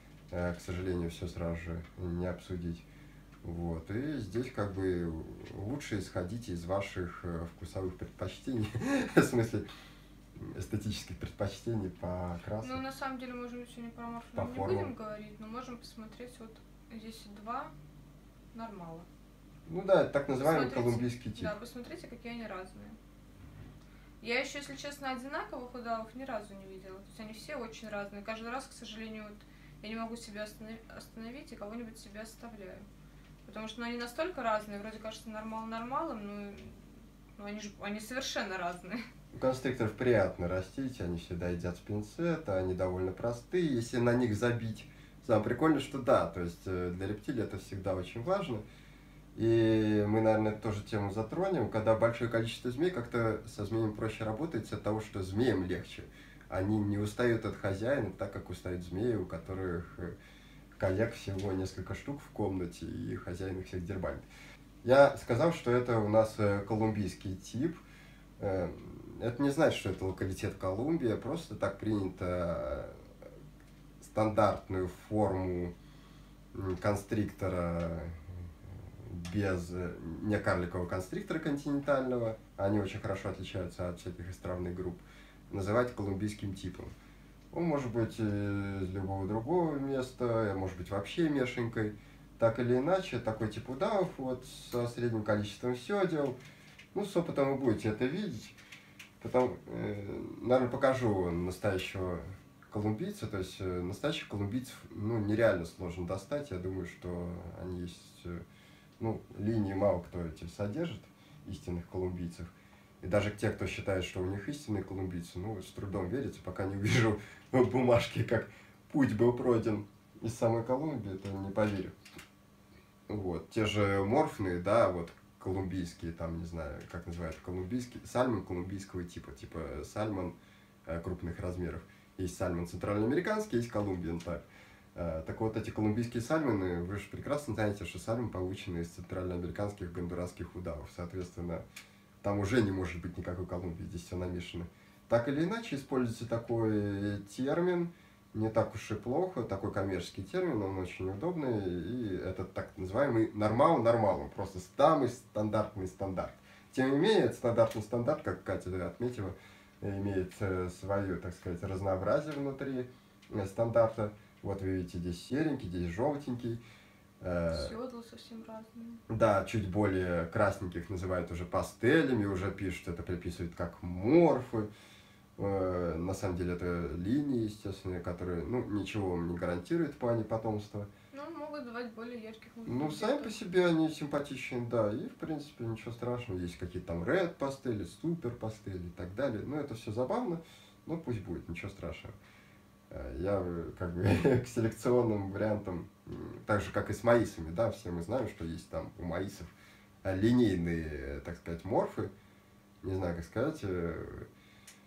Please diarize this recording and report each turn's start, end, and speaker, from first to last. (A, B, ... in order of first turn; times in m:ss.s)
0:00.3-0:02.8 A
0:03.4-0:09.6 A
0:10.4-0:12.8 A
0:12.6-0:17.7 B
0:14.4-0:14.9 A
0:18.5-0:19.1 B
0:19.7-0:21.6 A
0:20.4-0:23.0 B
0:24.2-0:32.9 B
0:33.4-0:39.0 B
0:39.3-0:48.6 A
0:49.4-1:00.2 A
1:00.8-1:04.3 A
1:04.8-1:07.8 A
1:08.4-1:13.0 A
1:14.0-1:15.7 A
1:16.5-1:26.9 A
1:27.5-1:36.4 A
1:36.9-1:38.6 A
1:39.2-1:48.4 A
1:49.0-1:52.5 A
1:53.0-2:01.9 A
2:03.1-2:10.4 A
2:10.9-2:21.6 A
2:22.2-2:46.6 A
2:47.2-2:47.8 A
2:47.5-2:49.0 B
2:49.1-2:54.7 A
2:55.4-3:00.9 A
3:01.1-3:03.4 B
3:02.7-3:12.1 A
3:12.9-3:19.5 A
3:20.0-3:22.1 A
3:22.8-3:24.3 A